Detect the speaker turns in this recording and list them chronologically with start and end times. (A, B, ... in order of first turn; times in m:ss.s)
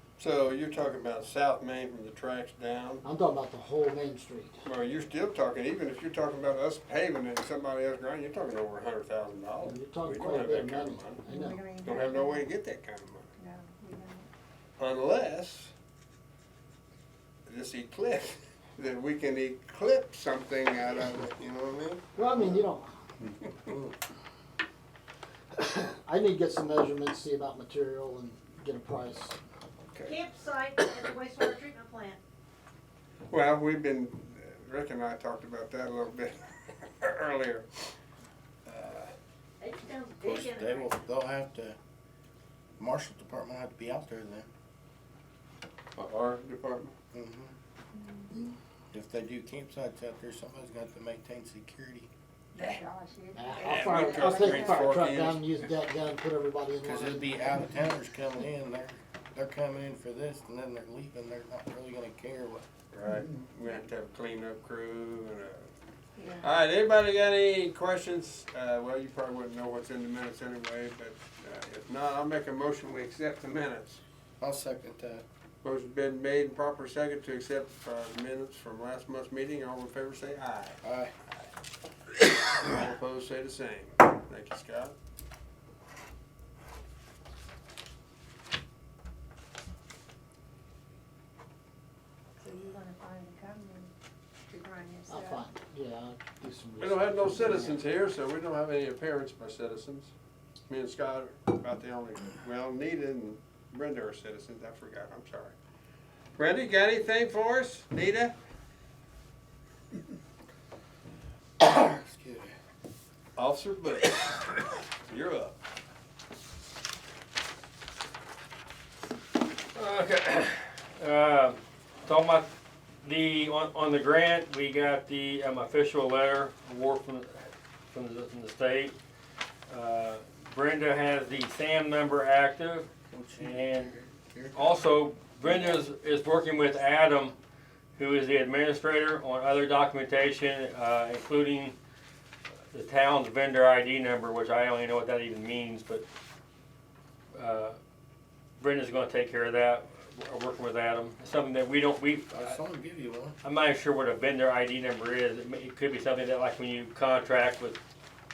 0:00.2-0:03.0 A
0:03.0-0:04.6 B
0:04.6-0:11.2 A
0:09.6-0:11.6 B
0:11.3-0:12.5 C
0:11.8-0:13.3 A
0:13.4-0:14.3 C
0:14.8-0:15.7 A
0:17.5-0:22.0 A
0:22.2-0:23.0 B
0:25.5-0:29.4 B
0:29.9-0:30.2 A
0:30.0-0:32.2 D
0:33.3-0:37.7 A
0:38.7-0:39.1 A
0:39.6-0:40.9 D
0:40.2-0:41.8 E
0:42.8-0:44.5 E
0:46.0-0:46.9 A
0:47.1-0:47.6 E
0:48.0-0:48.3 C
0:48.9-0:52.1 E
0:52.6-0:55.0 C
0:52.6-0:52.8 A
0:53.4-0:57.6 B
0:53.6-0:55.6 A
0:56.8-1:02.6 E
1:02.9-1:05.7 A
1:06.2-1:06.5 C
1:06.4-1:14.0 A
1:14.4-1:15.2 E
1:15.6-1:20.8 A
1:20.8-1:21.1 E
1:22.4-1:25.0 A
1:32.4-1:33.9 C
1:34.5-1:35.5 C
1:35.1-1:37.8 B
1:36.8-1:40.1 A
1:40.7-1:45.6 A
1:46.4-1:48.4 A
1:51.6-1:52.5 E
1:53.4-1:54.4 A
1:55.1-1:55.6 A
1:59.7-2:02.5 F
2:03.0-2:09.0 F
2:09.7-2:13.9 F
2:13.1-2:14.8 E
2:14.5-2:17.4 F
2:18.0-2:21.8 F
2:22.7-2:26.0 F
2:27.3-2:27.8 F
2:28.6-2:32.6 F
2:32.3-2:33.4 E
2:33.4-2:37.8 F